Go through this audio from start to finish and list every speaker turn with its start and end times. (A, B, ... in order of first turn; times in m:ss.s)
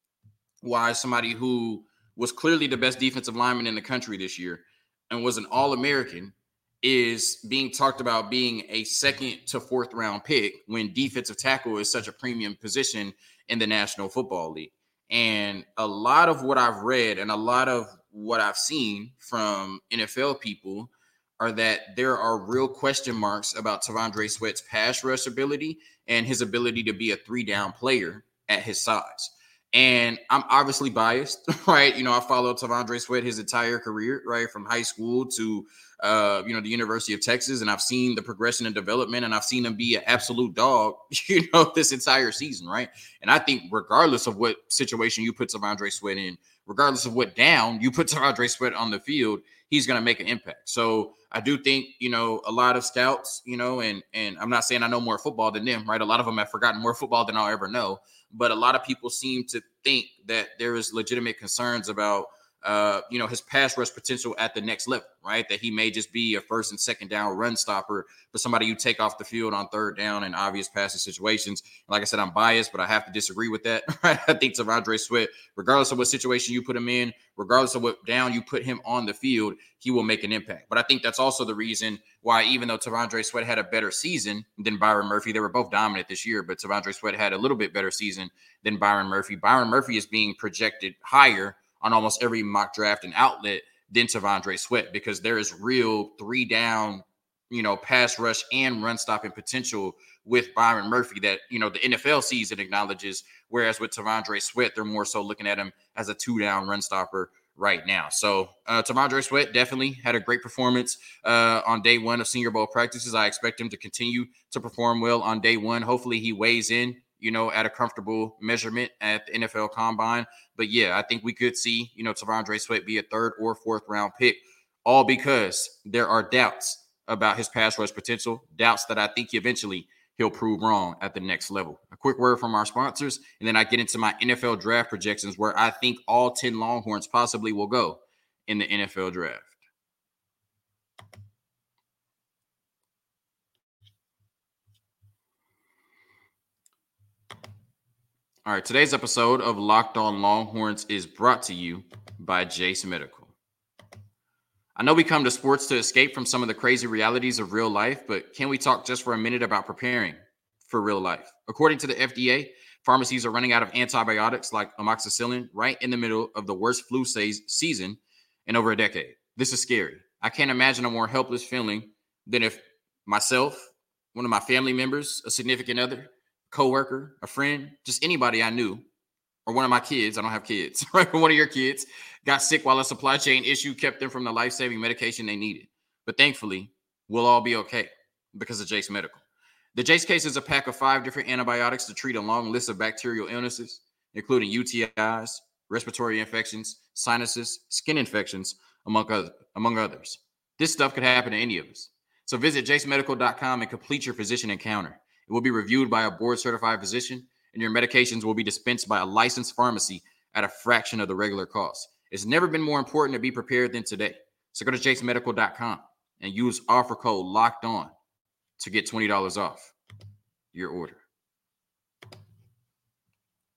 0:00.6-2:19.5 A
2:28.4-2:33.3 A
2:34.8-2:58.8 A
2:59.5-3:09.2 A
3:09.8-3:37.9 A
3:38.6-3:39.7 A
3:40.5-3:41.0 A